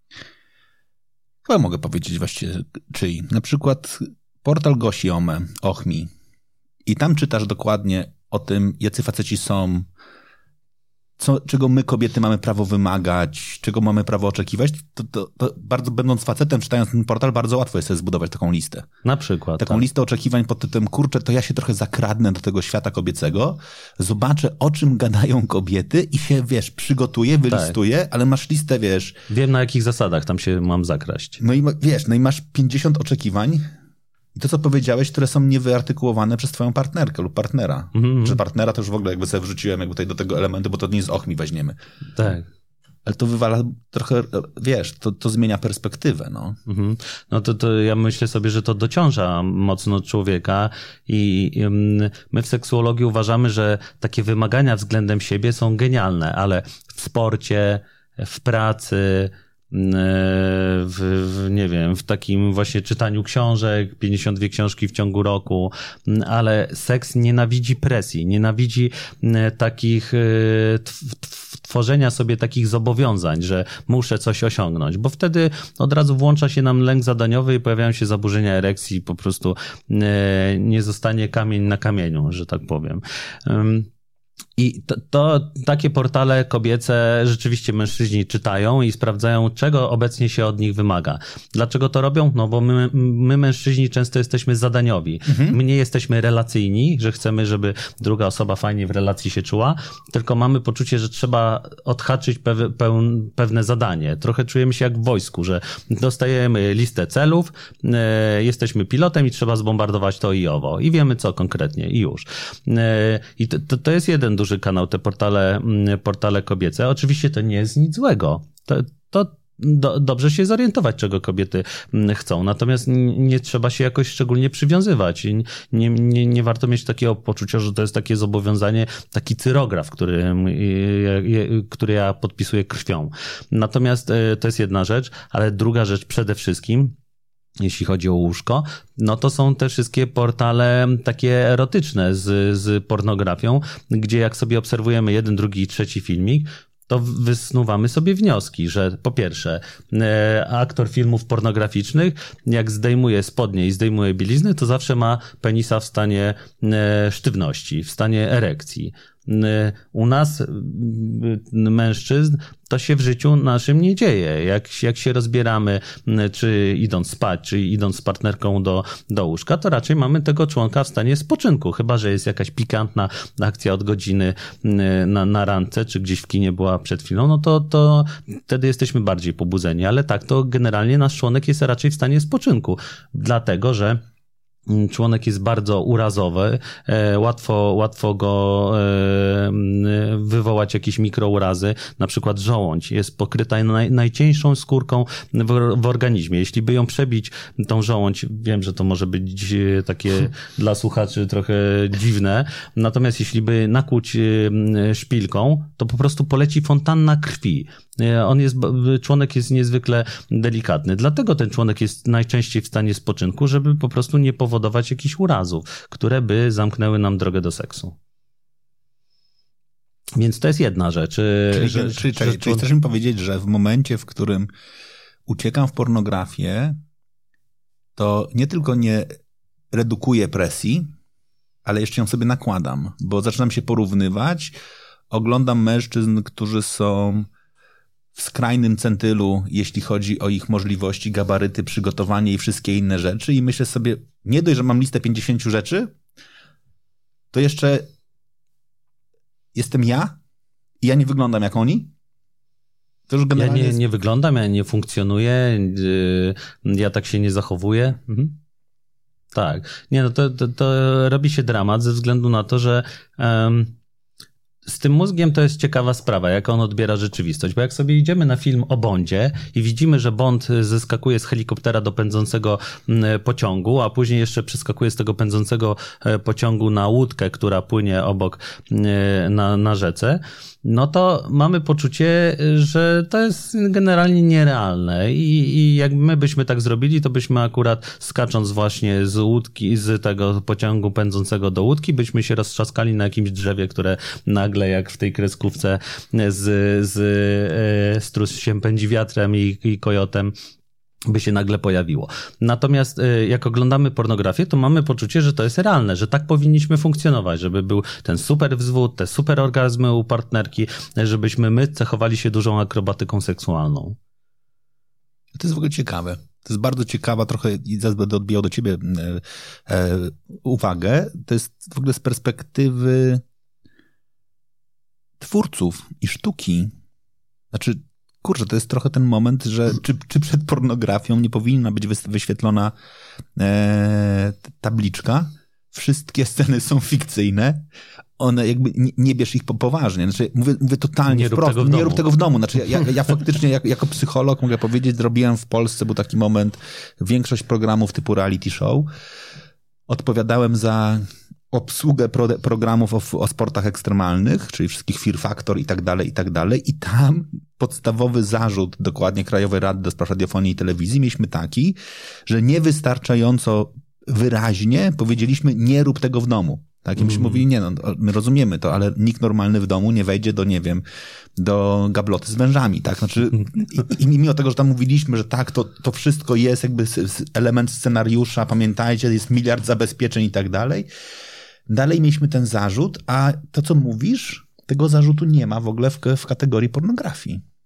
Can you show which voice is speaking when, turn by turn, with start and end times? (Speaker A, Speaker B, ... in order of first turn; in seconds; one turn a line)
Speaker A: 1.5-6.1
Speaker A: 6.9-9.9
Speaker A: 11.2-18.9
Speaker B: 19.0-19.9
Speaker A: 19.6-29.2
Speaker B: 29.3-31.4
Speaker A: 31.4-33.7
Speaker A: 34.4-41.8
Speaker B: 37.9-38.4
Speaker B: 42.2-42.5
Speaker A: 43.0-46.6
Speaker B: 46.7-83.9
Speaker B: 84.6-136.9
Speaker A: 95.3-95.6
Speaker B: 137.6-184.0
Speaker B: 184.7-217.9
Speaker B: 220.2-222.7
Speaker A: 221.5-224.5
Speaker A: 225.3-226.8
Speaker A: 228.0-229.1
Speaker A: 229.7-230.9
Speaker A: 231.7-234.6
Speaker A: 235.1-237.3
Speaker A: 238.2-245.9
Speaker A: 247.3-247.9
Speaker A: 249.5-250.2
Speaker A: 250.8-251.9
Speaker A: 253.1-253.8
Speaker B: 253.3-258.4
Speaker B: 259.3-263.8
Speaker B: 264.7-300.3
Speaker B: 301.1-314.0
Speaker A: 315.3-323.2
Speaker A: 325.2-326.7
Speaker A: 327.5-332.7
Speaker A: 333.4-337.7
Speaker A: 338.2-348.9
Speaker B: 341.1-342.1
Speaker A: 349.9-370.8
Speaker A: 371.4-380.9
Speaker A: 381.7-387.4